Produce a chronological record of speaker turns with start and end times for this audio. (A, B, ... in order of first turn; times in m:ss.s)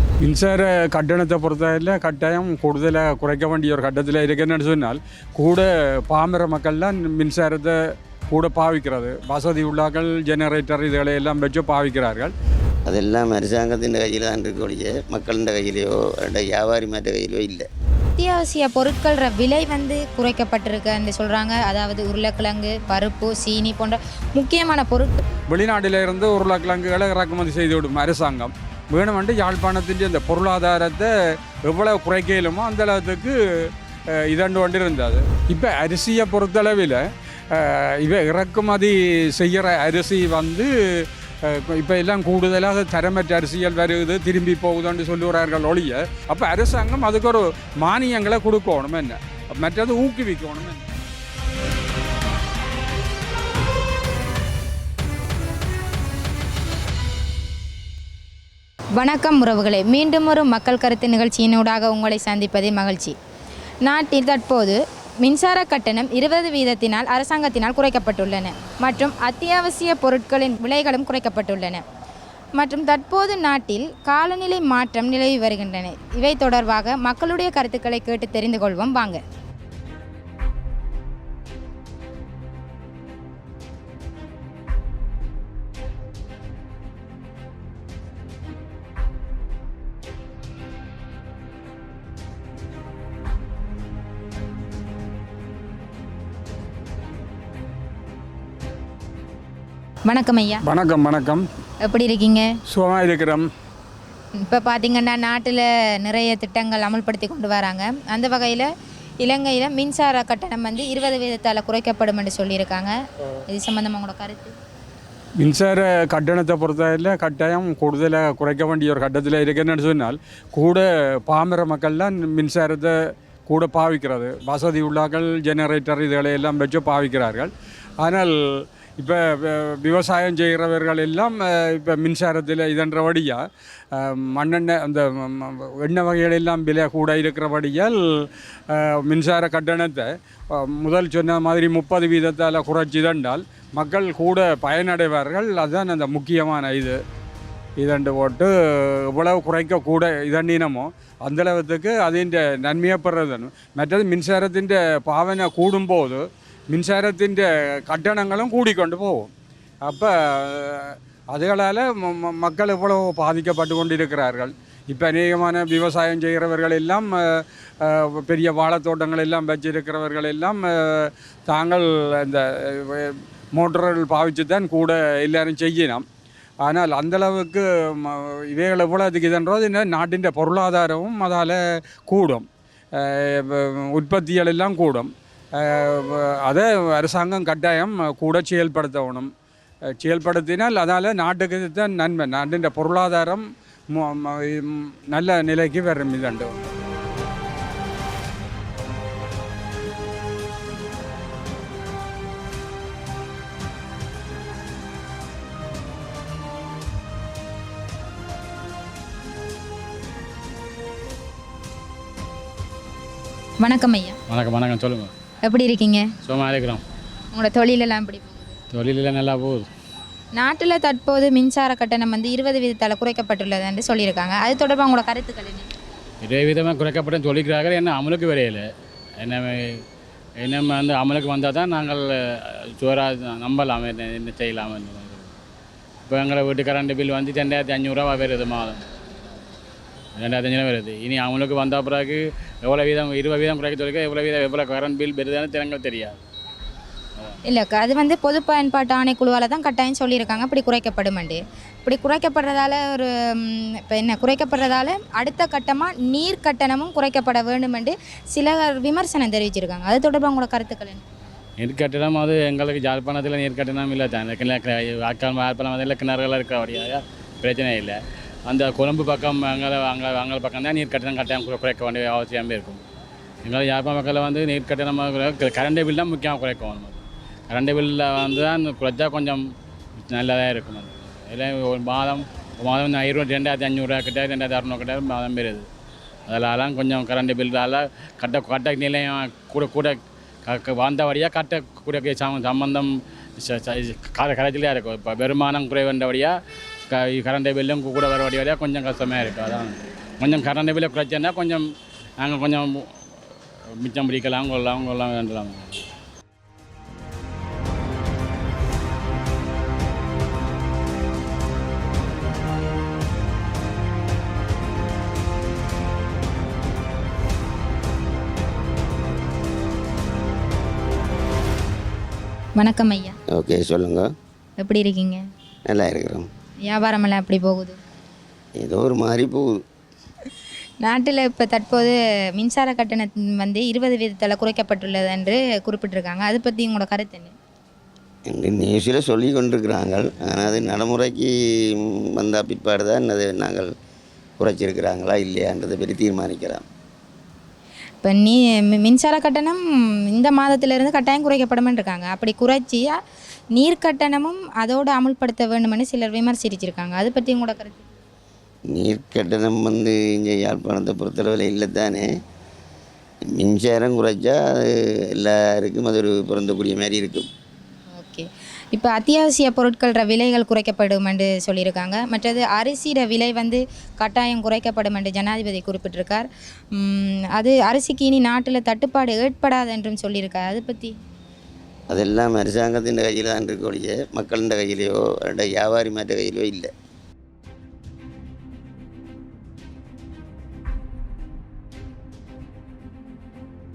0:00.2-0:07.8 A
0:08.3-0:12.3 A
0:12.9-0:17.7 B
0:18.2-0:25.2 C
0:25.5-0:50.8 A
0:59.0-1:03.2 C
1:03.8-1:11.8 C
1:12.6-1:19.2 C
1:40.1-1:40.6 C
1:40.6-1:41.4 A
1:41.8-1:42.5 C
1:42.7-1:43.5 A
1:44.4-1:48.7 C
1:49.2-1:52.9 C
1:53.5-1:54.6 C
1:55.4-2:03.0 A
2:03.5-2:27.0 A
2:27.8-2:39.3 A
2:39.8-2:56.0 A
2:56.6-3:09.3 A
3:10.0-3:16.6 A
3:33.6-3:34.2 C
3:34.3-3:35.1 D
3:35.4-3:36.1 C
3:36.2-3:36.8 D
3:37.3-3:38.5 C
3:38.7-3:39.7 D
3:40.4-3:45.7 C
3:46.2-3:48.6 D
3:49.2-3:49.8 D
3:50.4-3:55.4 D
3:56.1-3:58.9 D
4:00.2-4:06.2 D
4:07.4-4:21.1 C
4:21.6-4:32.8 D
4:33.4-4:39.4 D
4:40.1-4:45.7 D
4:46.3-4:56.3 D
4:56.9-5:01.6 D
5:02.2-5:05.9 D
5:22.6-5:23.2 C
5:23.3-5:24.1 B
5:24.6-5:25.2 C
5:25.7-5:26.3 B
5:26.7-5:27.8 C
5:28.6-5:29.6 B
5:30.8-5:37.4 C
5:38.3-5:43.7 B
5:44.4-5:46.6 B
5:48.0-5:53.0 C
5:53.5-5:57.9 C
5:58.7-6:02.1 B
6:03.3-6:07.3 B
6:08.0-6:21.0 C
6:21.9-6:26.7 B